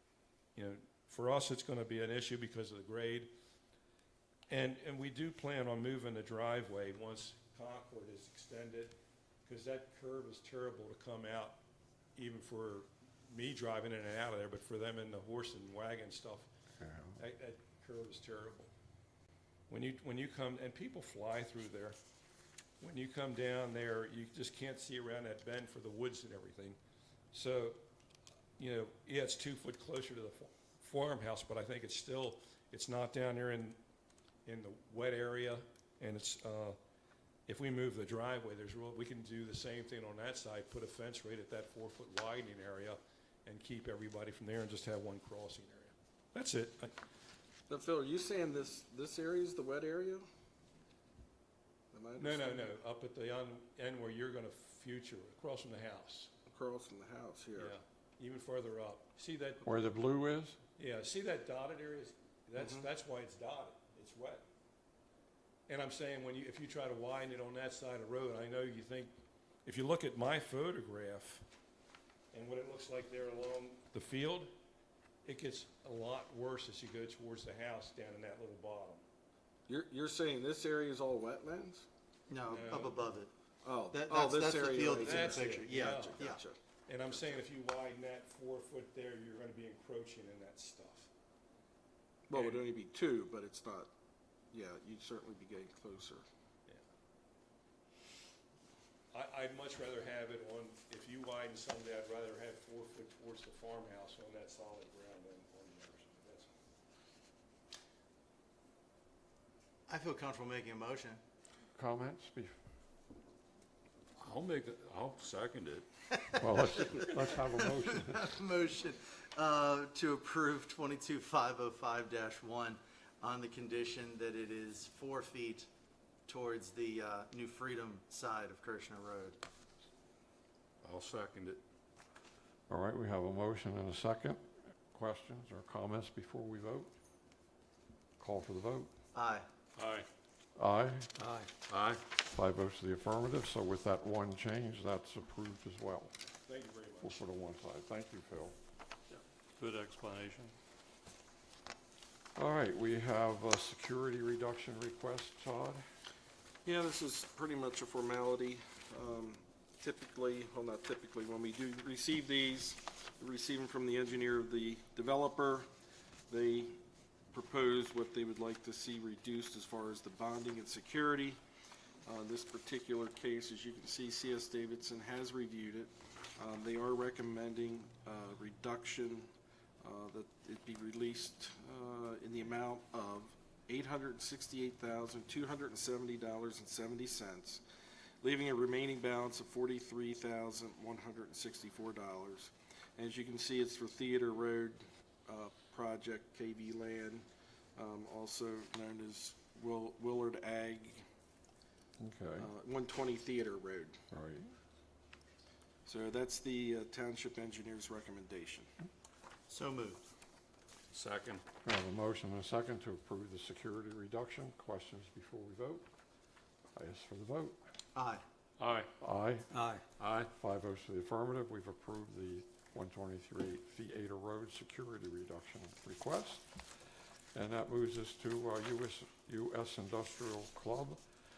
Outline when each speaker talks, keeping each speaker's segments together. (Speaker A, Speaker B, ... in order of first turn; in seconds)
Speaker A: 0.6-3.3, 4.5-8.9, 9.5-11.6, 12.2-16.5, 17.2-18.7, 19.7-22.0, 22.8-26.8, 27.3-27.8, 28.6-33.8, 34.5-36.8, 37.5-46.9, 52.2-56.3, 57.6-59.8, 60.8-64.5, 65.7-69.1, 69.7-71.5, 72.3-74.5, 75.2-79.0, 82.5-83.0, 85.0-86.3, 86.9-91.1, 92.3-92.6, 99.1-106.5, 146.5-147.2
Speaker B: 16.8-17.2, 59.6-60.6, 111.7-112.5, 116.4-118.3, 132.7-136.9, 138.2-138.9, 140.6-141.1, 142.3-146.1, 147.0-148.6, 152.4-155.8, 202.0-202.5, 204.1-204.5, 211.6-215.9, 216.8-217.6, 219.0-219.6, 220.3-231.0
Speaker C: 47.7-50.3, 51.9-52.8, 56.5-57.8, 62.6-62.9, 79.7-81.8, 83.6-86.6, 92.3-93.9, 94.5-96.2, 156.7-165.7, 166.3-166.8, 167.3-171.4, 172.1-179.3, 179.8-187.6, 188.2-201.1, 202.4-204.0, 205.8-208.7
Speaker D: 82.3-83.3, 83.9-86.4, 109.9-111.2, 117.7-125.7, 126.3-129.4, 139.1-139.5, 209.5-210.0, 217.9-218.2, 219.6-219.8
Speaker E: 114.2-115.9, 130.8-131.6, 139.8-140.1, 141.2-142.0, 149.1-150.5, 210.9-211.4, 218.6-218.9, 220.0-220.3